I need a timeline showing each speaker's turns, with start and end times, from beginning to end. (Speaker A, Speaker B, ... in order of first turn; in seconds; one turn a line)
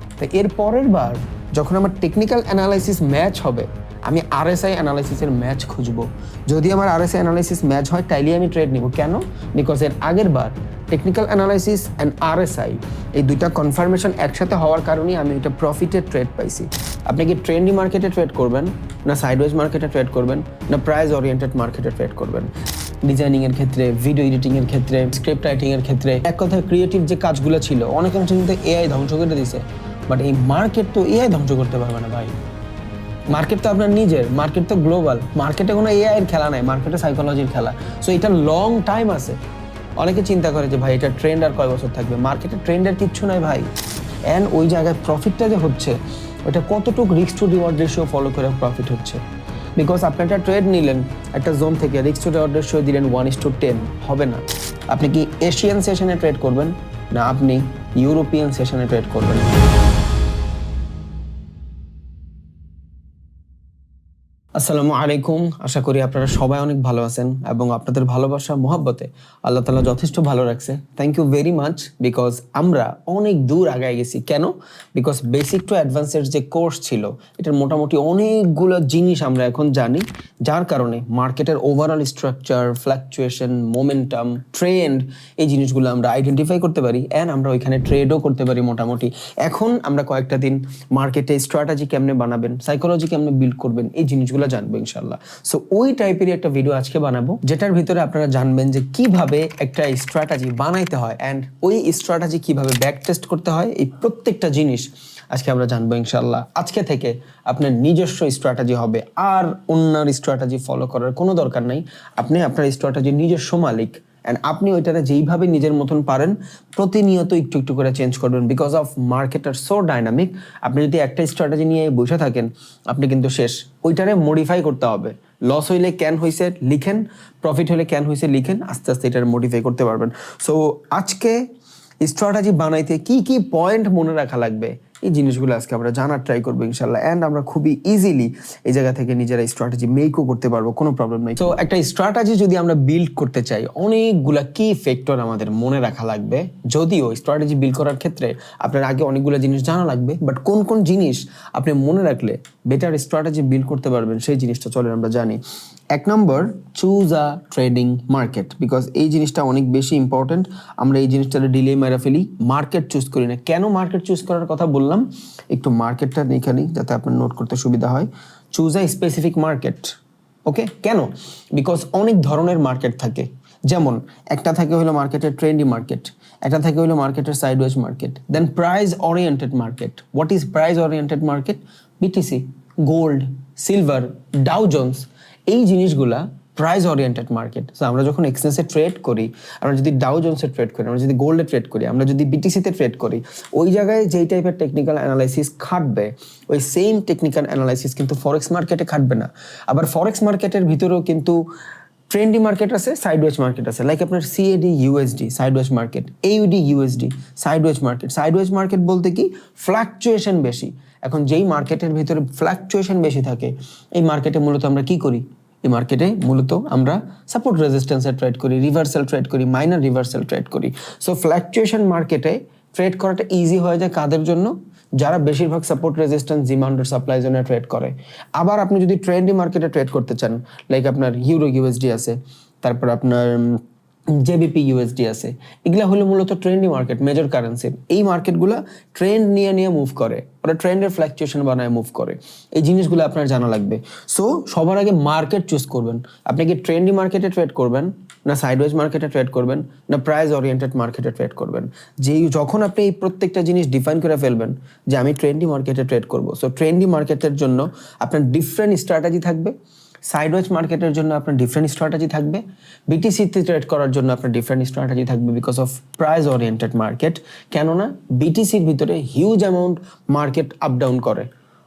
Speaker A: 0.2-22.5
Speaker A: 23.0-32.4
Speaker A: 33.3-39.4
Speaker A: 40.0-43.7
Speaker A: 44.3-49.2
Speaker A: 49.8-59.5
Speaker A: 64.6-131.4
Speaker A: 132.0-155.4
Speaker A: 155.9-169.9
Speaker A: 170.5-201.4
Speaker A: 202.1-233.6
Speaker A: 234.2-259.5
Speaker A: 260.1-271.3